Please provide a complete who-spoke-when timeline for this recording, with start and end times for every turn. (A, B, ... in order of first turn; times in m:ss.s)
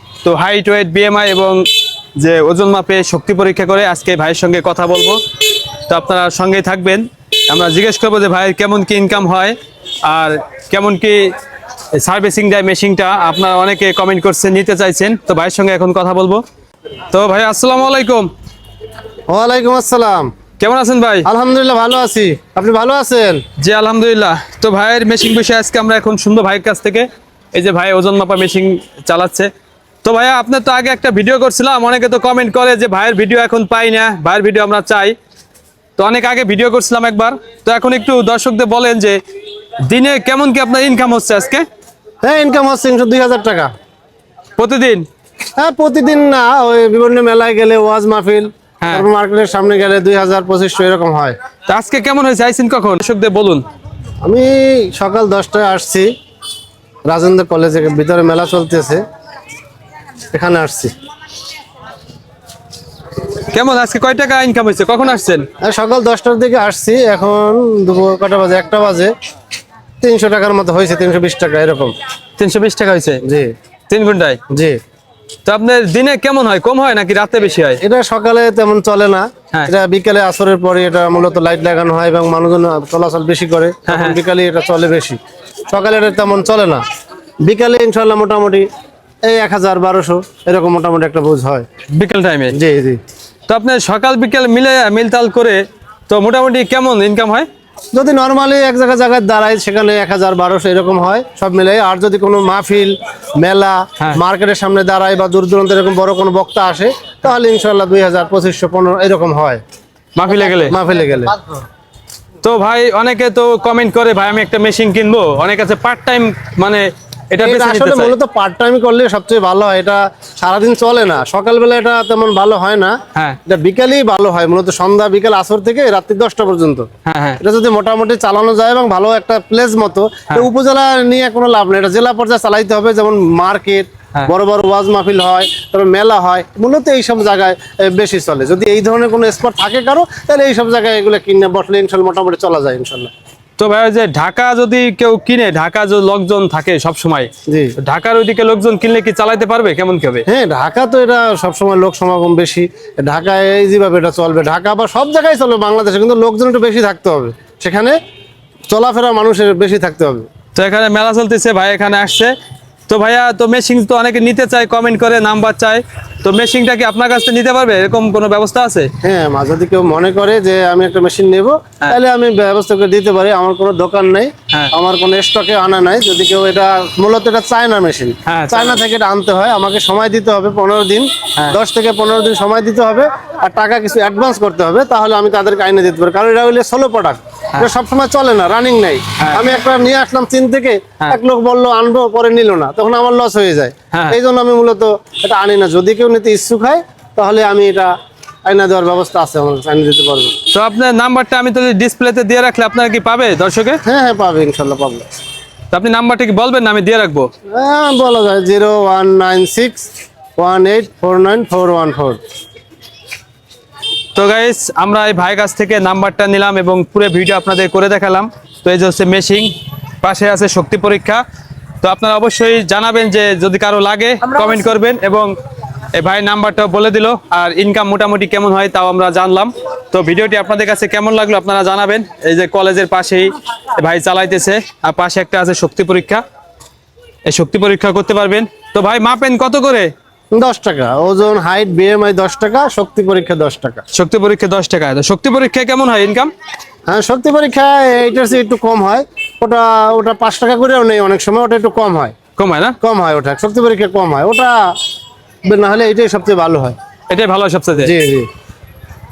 0:00.2-0:05.2 A
0:05.8-0:11.3 A
0:11.9-0:16.4 A
0:17.1-0:18.3 A
0:19.3-0:20.3 B
0:20.6-0:21.3 A
0:21.2-0:23.4 B
0:23.6-0:29.5 A
0:30.0-0:35.2 A
0:36.0-0:39.2 A
0:39.8-0:41.6 A
0:42.2-0:43.7 B
0:44.6-0:45.1 A
0:45.6-0:51.4 B
0:48.8-0:49.1 A
0:51.7-0:53.6 A
0:54.2-0:56.1 B
0:57.1-0:59.0 B
1:00.3-1:00.9 B
1:03.5-1:05.5 A
1:05.6-1:09.1 B
1:10.0-1:12.0 B
1:12.4-1:13.2 A
1:13.2-1:13.5 B
1:13.9-1:14.4 A
1:14.5-1:14.8 B
1:15.4-1:17.8 A
1:17.8-1:26.8 B
1:23.9-1:24.2 A
1:27.4-1:28.7 B
1:29.2-1:31.6 B
1:31.9-1:32.6 A
1:32.5-1:33.0 B
1:33.5-1:37.5 A
1:37.9-1:49.6 B
1:50.2-1:50.8 A
1:50.3-1:51.4 B
1:52.4-1:58.1 A
1:57.4-2:06.9 B
2:07.0-2:07.4 A
2:07.4-2:23.1 B
2:23.6-2:30.2 A
2:27.5-2:27.8 B
2:30.3-2:38.0 B
2:38.7-2:40.3 B
2:40.6-2:42.3 A
2:42.9-2:48.9 A
2:49.0-3:17.9 B
2:58.2-2:58.8 A
3:18.5-3:20.4 B
3:20.5-3:23.8 A
3:23.8-3:25.1 B
3:25.7-3:27.3 A
3:27.5-3:32.2 B
3:34.2-3:41.2 A
3:41.8-3:45.3 A
3:45.9-3:56.2 A
3:57.3-3:59.9 A
4:00.3-4:03.8 B
4:03.9-4:06.3 A
4:06.9-4:12.2 B
4:12.4-4:12.8 A
4:12.8-4:14.7 B
4:15.4-4:16.8 B
4:17.1-4:17.9 A
4:17.8-4:18.3 B